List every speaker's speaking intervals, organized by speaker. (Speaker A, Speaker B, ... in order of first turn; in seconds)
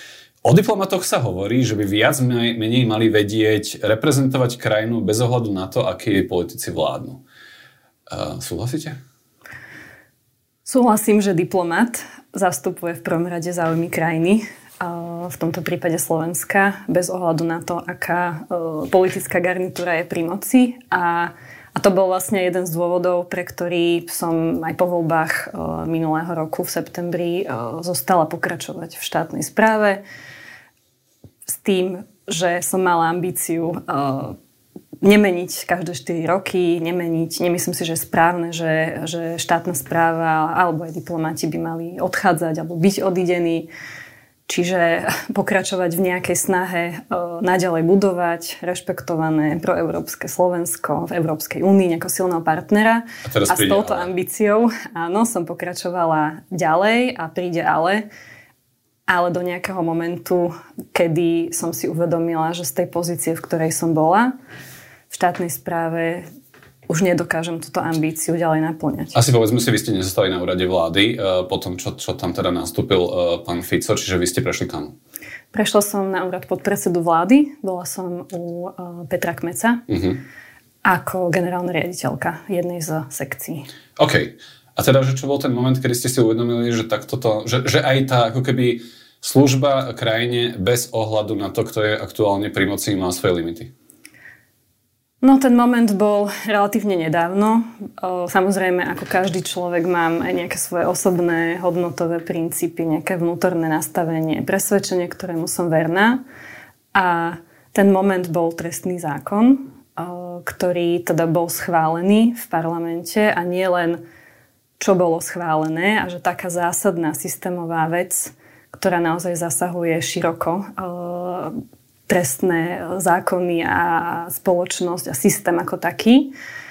Speaker A: 0.4-7.2, 8.1-9.0, 53.2-54.1, 69.2-74.9, 79.9-80.2, 84.0-93.7
Speaker B: 10.7-30.0, 31.5-34.4, 35.0-43.7, 44.5-58.1, 59.1-64.3, 65.1-66.2, 66.9-69.2, 75.5-79.8, 80.8-83.7, 95.2-106.2, 106.9-114.0, 114.8-121.6, 122.1-126.3